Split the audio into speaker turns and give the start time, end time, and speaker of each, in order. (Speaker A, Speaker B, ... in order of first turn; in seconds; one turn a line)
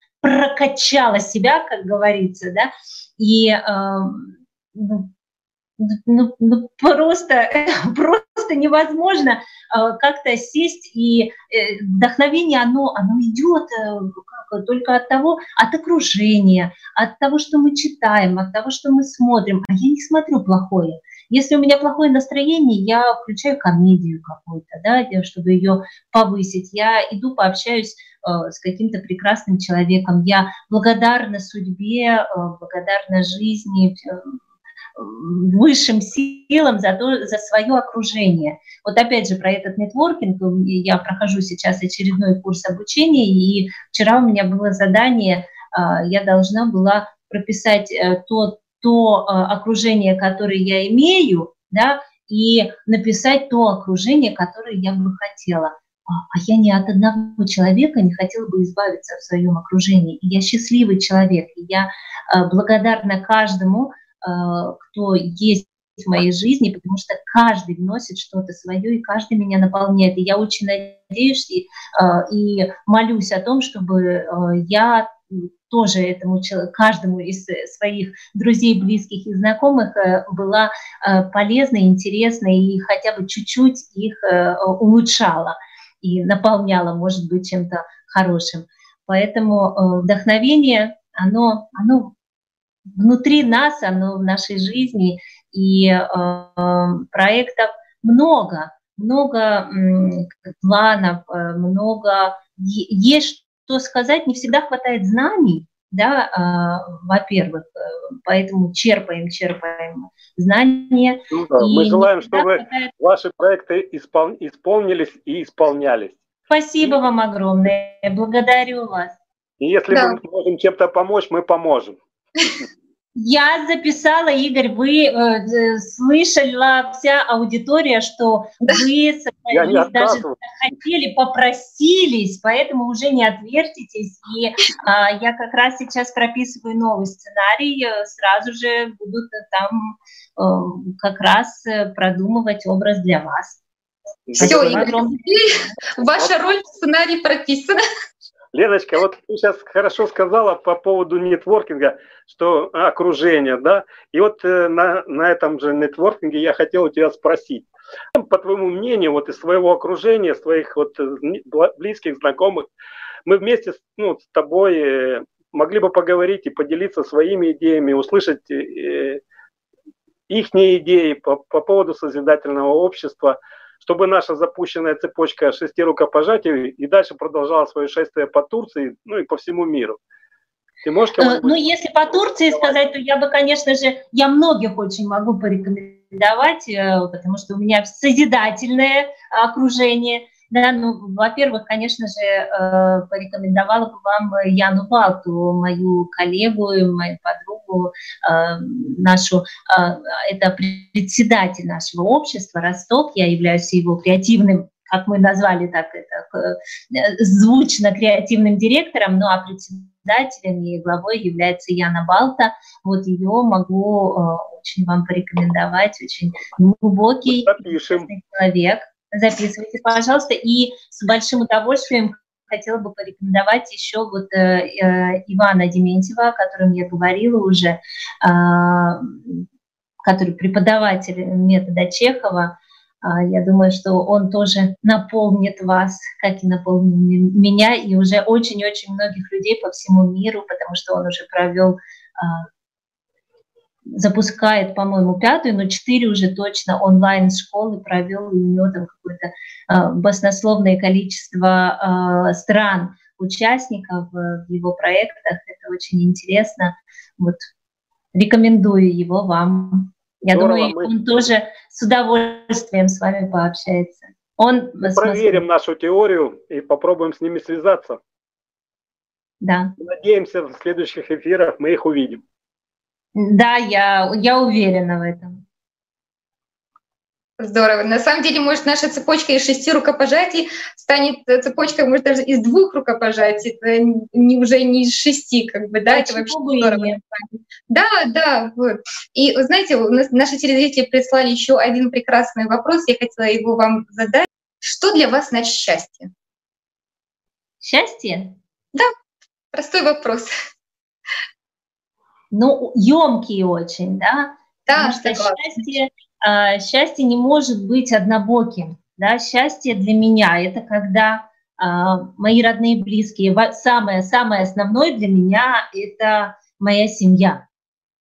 Speaker A: 0.2-5.1
Speaker A: 5.8-34.4
Speaker A: 34.9-92.1
Speaker A: 92.8-112.9
Speaker B: 111.3-116.2
Speaker A: 116.5-119.2
Speaker B: 119.6-122.0
Speaker C: 119.9-120.2
Speaker A: 123.2-143.6
Speaker B: 129.5-130.3
Speaker B: 144.3-144.9
Speaker C: 144.4-147.8
Speaker A: 144.4-145.8
Speaker B: 148.5-162.7
Speaker B: 163.2-169.2
Speaker B: 170.3-180.0
Speaker B: 180.8-181.7
Speaker A: 181.2-229.4
Speaker B: 182.3-182.8
Speaker B: 217.3-218.1
Speaker A: 230.0-242.5
Speaker A: 243.9-257.4
Speaker A: 258.1-265.4
Speaker B: 260.3-260.9
Speaker B: 264.8-268.0
Speaker A: 269.4-269.7
Speaker B: 269.8-272.2
Speaker A: 273.1-275.4
Speaker C: 277.4-296.1
Speaker A: 285.9-287.0
Speaker A: 297.6-298.4
Speaker C: 299.5-300.3
Speaker A: 302.3-317.4
Speaker C: 304.7-305.4